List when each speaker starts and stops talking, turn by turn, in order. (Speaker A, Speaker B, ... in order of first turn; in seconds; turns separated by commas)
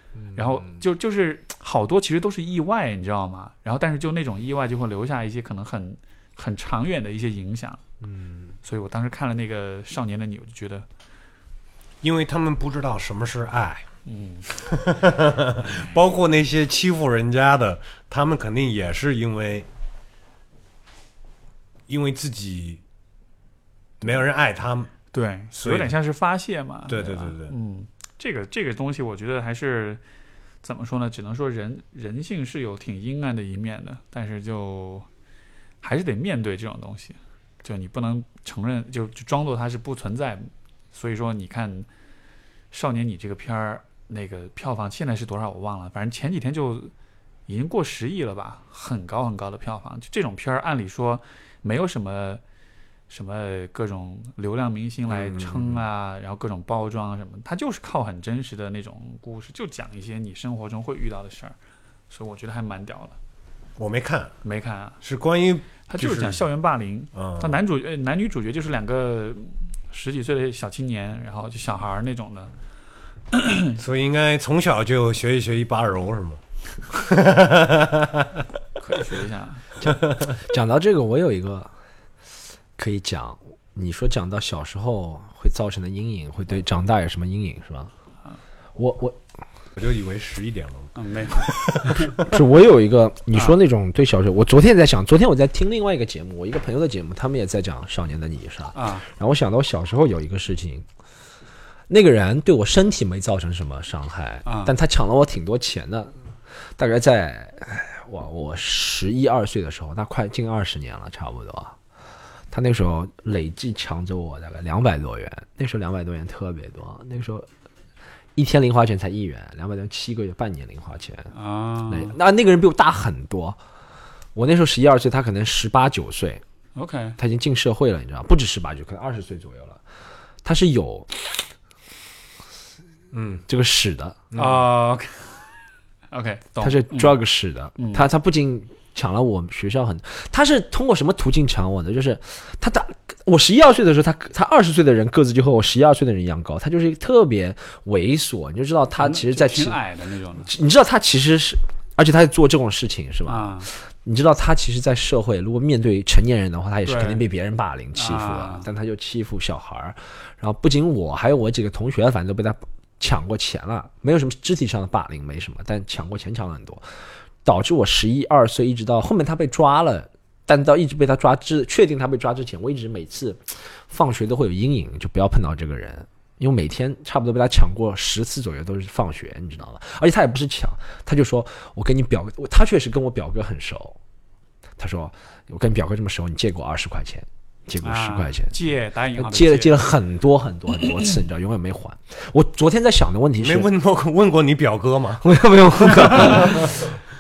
Speaker A: 0.2-0.8, Speaker B: 0.3-7.8, Speaker A: 8.0-8.5, Speaker B: 8.6-10.9, Speaker C: 12.0-13.9, Speaker B: 14.1-14.5, Speaker C: 14.5-19.7, Speaker C: 21.9-22.8, Speaker C: 24.0-24.9, Speaker B: 25.1-30.0, Speaker C: 25.5-25.9, Speaker C: 26.9-27.6, Speaker B: 30.6-35.1, Speaker B: 35.8-41.9, Speaker B: 42.7-46.9, Speaker B: 47.5-52.4, Speaker B: 53.1-61.6, Speaker C: 55.1-55.8, Speaker B: 62.1-63.2, Speaker C: 63.8-64.4, Speaker B: 64.4-65.0, Speaker C: 65.0-66.5, Speaker B: 65.9-72.5, Speaker C: 67.2-67.6, Speaker B: 73.3-73.8, Speaker C: 73.8-78.5, Speaker B: 78.8-79.7, Speaker A: 79.8-81.7, Speaker A: 82.8-87.9, Speaker A: 88.8-89.2, Speaker C: 89.8-92.3, Speaker B: 91.0-92.2, Speaker A: 92.2-100.8, Speaker B: 98.7-99.1, Speaker A: 101.9-106.1, Speaker B: 104.5-104.7, Speaker A: 106.8-111.8, Speaker A: 112.5-117.5, Speaker A: 118.4-121.3, Speaker B: 121.3-122.2, Speaker A: 121.9-123.6, Speaker A: 124.3-126.4, Speaker B: 126.8-127.2, Speaker A: 127.2-129.8, Speaker A: 130.4-131.1, Speaker C: 133.1-133.4, Speaker A: 133.5-134.7, Speaker B: 134.3-135.5, Speaker B: 136.1-137.2, Speaker A: 136.6-149.8, Speaker B: 137.8-138.1, Speaker B: 149.0-150.5, Speaker A: 150.4-166.8, Speaker B: 153.3-153.7, Speaker B: 156.8-157.2, Speaker B: 157.9-158.7, Speaker A: 167.4-184.0, Speaker A: 184.8-188.6, Speaker B: 187.8-189.9, Speaker A: 189.2-193.7, Speaker C: 193.4-195.3, Speaker A: 195.2-196.9, Speaker C: 195.8-196.6